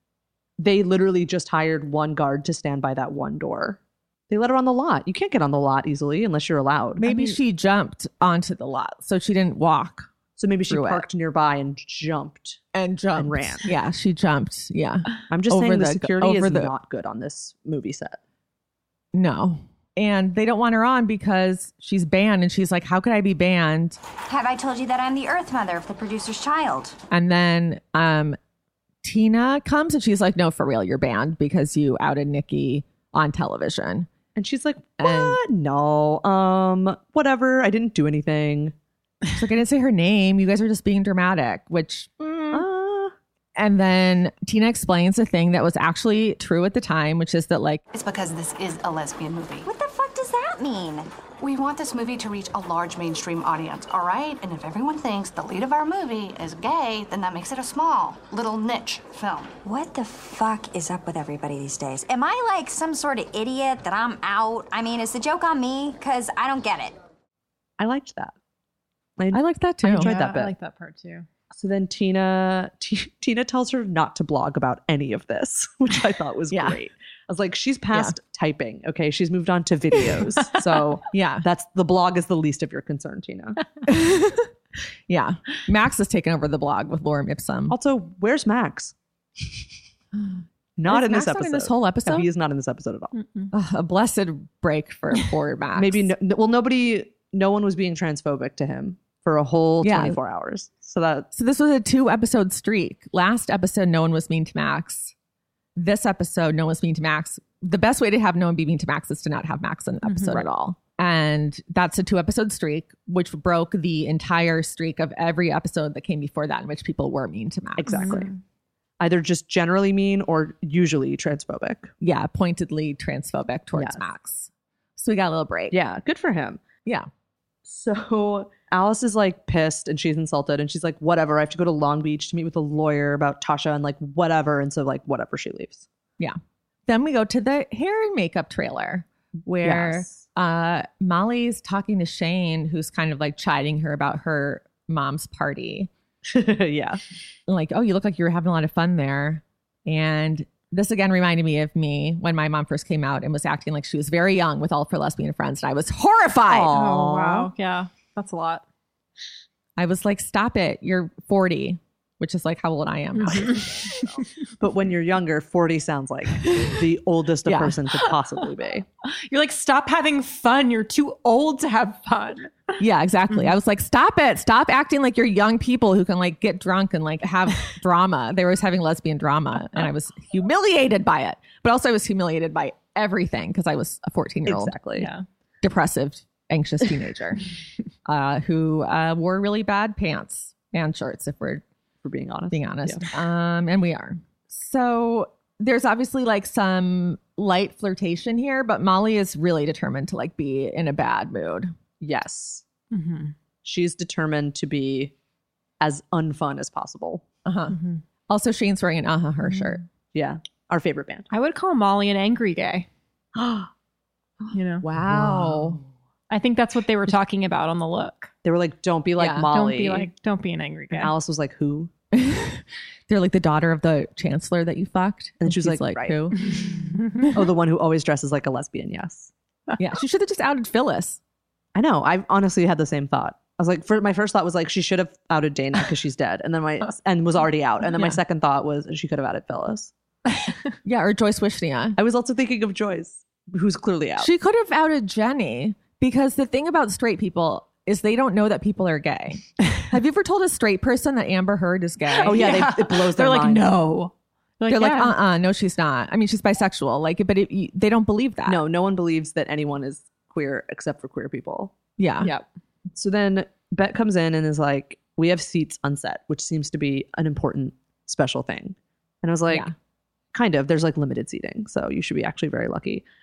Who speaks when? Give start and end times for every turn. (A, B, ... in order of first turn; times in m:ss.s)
0:00.6-0:07.0 A
0:07.0-0:10.1 B
0:10.4-0:12.6 A
0:10.7-0:11.0 B
0:12.7-0:16.7 B
0:13.2-0:13.7 A
0:15.3-0:18.2 A
0:19.1-0:24.0 B
0:24.3-0:27.0 C
0:27.1-0:28.4 B
0:29.0-0:34.1 B
0:34.3-0:38.7 A
0:35.0-0:35.4 B
0:39.4-0:42.7 B
0:42.5-0:43.1 A
0:43.6-0:47.8 B
0:47.9-0:49.7 D
0:49.6-0:51.1 C
0:51.4-0:59.6 D
0:59.6-1:07.0 C
1:07.8-1:08.3 A
1:09.2-1:10.5 A
1:09.3-1:10.1 B
1:10.0-1:11.2 E
1:11.5-1:23.7 A
1:16.5-1:16.8 B
1:21.1-1:21.4 B
1:23.8-1:24.5 B
1:25.1-1:27.8 B
1:27.7-1:28.9 A
1:30.2-1:32.3 B
1:30.8-1:33.1 A
1:33.1-1:33.5 E
1:33.5-1:36.1 B
1:35.8-1:41.3 A
1:39.8-1:40.2 B
1:41.3-1:45.1 B
1:45.8-1:58.2 B
1:50.0-1:50.4 E
1:57.8-1:58.3 A
1:57.9-1:58.4 E
1:59.0-2:01.9 A
2:02.0-2:05.8 B
2:03.7-2:04.0 A
2:05.7-2:06.6 A
2:07.6-2:15.8 A
2:16.2-2:25.9 B
2:19.6-2:20.2 A
2:26.2-2:27.0 A
2:27.5-2:36.7 B
2:36.5-2:37.5 A
2:36.7-2:38.6 E
2:39.8-2:44.1 B
2:43.2-2:43.6 E
2:44.6-2:48.8 A
2:47.4-2:47.8 B
2:49.0-2:52.5 E
2:52.8-3:04.8 B
3:04.5-3:05.1 A
3:05.0-3:05.2 E
3:05.6-3:07.5 B
3:08.0-3:11.6 B
3:12.0-3:13.1 A
3:12.5-3:21.7 B
3:22.0-3:22.6 A
3:22.9-3:23.3 E
3:23.6-3:25.1 A
3:25.8-3:27.2 A
3:27.4-3:27.8 B
3:27.7-3:28.0 E
3:28.3-3:29.8 B
3:30.1-3:31.3 A
3:31.3-3:32.9 E
3:33.4-3:33.7 A
3:34.4-3:35.8 A
3:34.5-3:34.8 E
3:34.8-3:35.8 B
3:36.3-3:38.3 E
3:38.4-3:40.1 A
3:39.2-3:39.5 B
3:39.5-3:41.1 E
3:40.9-3:41.9 A
3:42.1-3:46.7 B
3:45.4-3:46.2 A
3:47.2-3:49.3 A
3:49.8-3:51.2 B
3:51.7-3:59.9 A
3:57.9-3:58.2 B
4:00.8-4:02.0 B
4:02.0-4:04.3 A
4:04.2-4:12.6 B
4:12.1-4:15.1 E
4:12.2-4:13.8 A
4:14.7-4:18.6 B
4:18.5-4:21.7 A
4:22.0-4:22.3 B
4:22.9-4:29.7 A
4:30.3-4:33.0 A